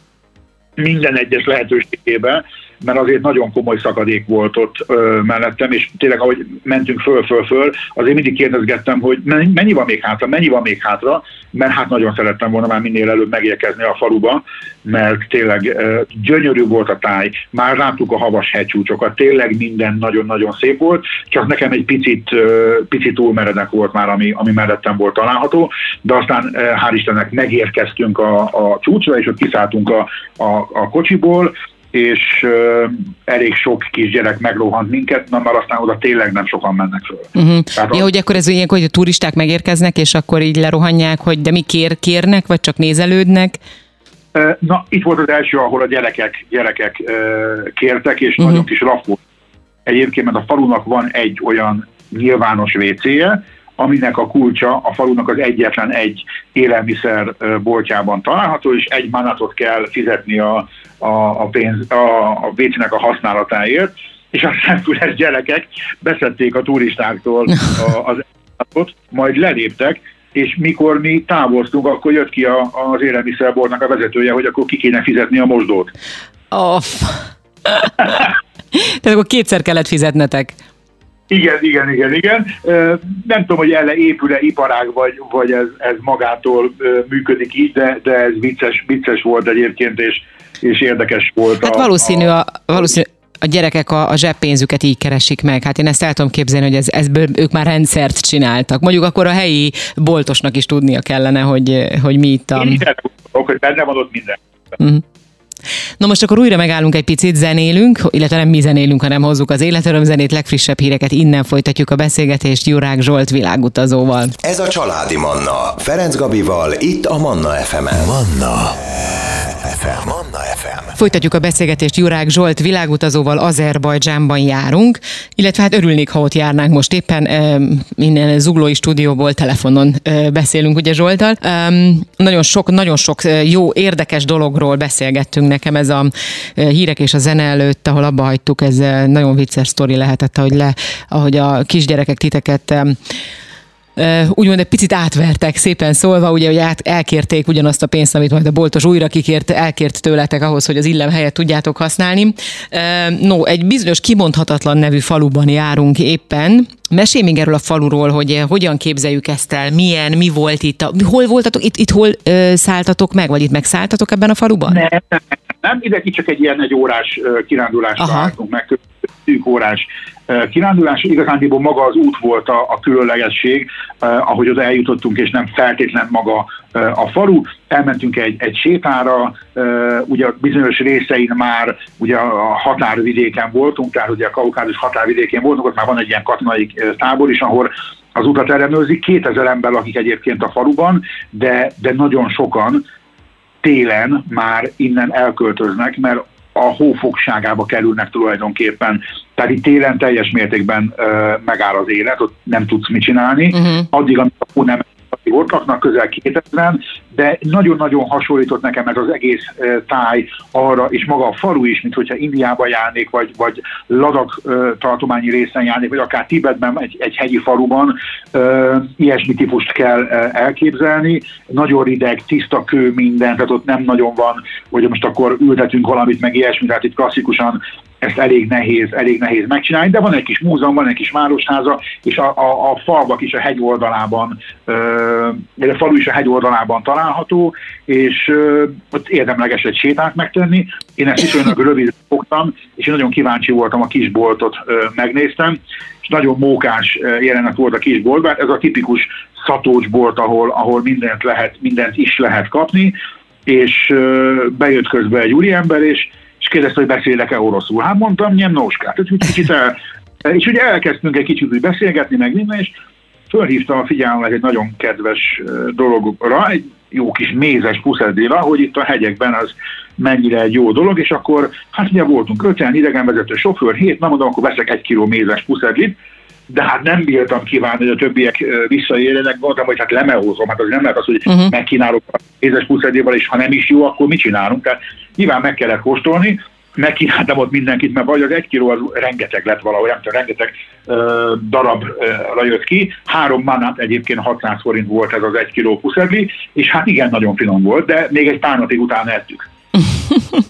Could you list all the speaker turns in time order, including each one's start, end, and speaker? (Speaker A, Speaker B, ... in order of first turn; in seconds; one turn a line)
Speaker A: 0.8-38.1
Speaker B: 37.3-43.6
Speaker A: 44.3-49.2
Speaker A: 49.9-75.9
Speaker B: 76.5-80.6
Speaker A: 81.3-92.3
Speaker B: 91.6-102.8
Speaker A: 102.5-104.4
Speaker B: 106.0-114.3
Speaker C: 114.4-120.9
Speaker B: 121.0-143.0
Speaker B: 143.9-164.8
Speaker A: 164.7-192.8
Speaker B: 168.0-168.3
Speaker A: 193.6-252.9
Speaker A: 253.5-262.7
Speaker A: 263.3-275.9
Speaker A: 276.5-299.5